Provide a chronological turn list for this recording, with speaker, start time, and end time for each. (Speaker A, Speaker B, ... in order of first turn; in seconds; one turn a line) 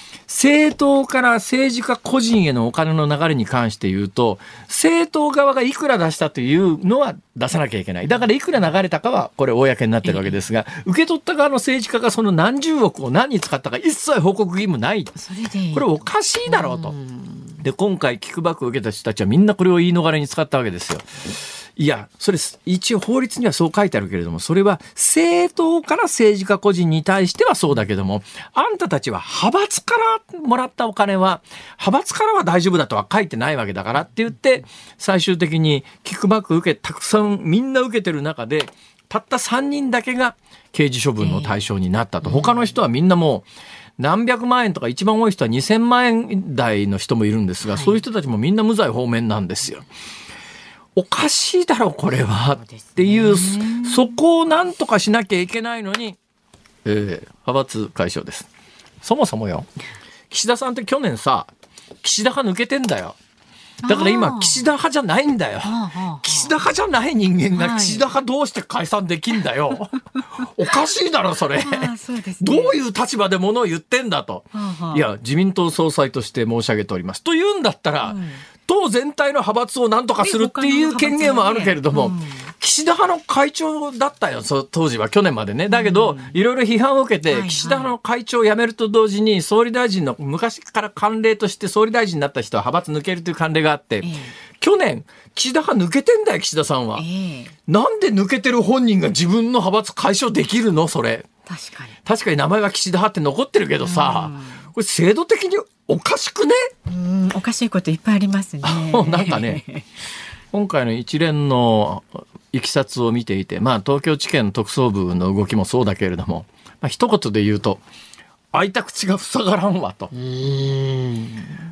Speaker A: 0.3-15.2
Speaker B: 10.1-10.3
Speaker B: 15.2-15.9
Speaker A: 15.7-16.9
Speaker B: 16.5-17.6
Speaker A: 17.6-21.1
Speaker A: 21.8-43.5
Speaker B: 41.2-41.6
Speaker B: 42.2-42.7
Speaker A: 44.0-49.9
Speaker B: 47.7-48.0
Speaker A: 51.0-56.2
Speaker B: 52.6-54.1
Speaker A: 56.9-58.5
Speaker A: 59.0-59.7
Speaker A: 60.3-61.5
Speaker A: 62.0-63.2
Speaker B: 63.8-64.7
Speaker A: 63.9-97.0
Speaker B: 65.6-66.5
Speaker B: 67.5-68.1
Speaker B: 71.6-72.8
Speaker B: 74.5-75.0
Speaker B: 78.0-78.4
Speaker B: 80.2-82.5
Speaker B: 85.7-86.4
Speaker B: 87.3-87.9
Speaker B: 94.0-94.4
Speaker B: 97.0-97.5
Speaker A: 97.7-101.3
Speaker B: 101.5-102.0
Speaker A: 102.0-106.7
Speaker B: 103.8-104.7
Speaker B: 106.9-109.8
Speaker A: 108.6-109.6
Speaker A: 110.5-117.8
Speaker A: 118.5-120.1
Speaker B: 120.1-121.5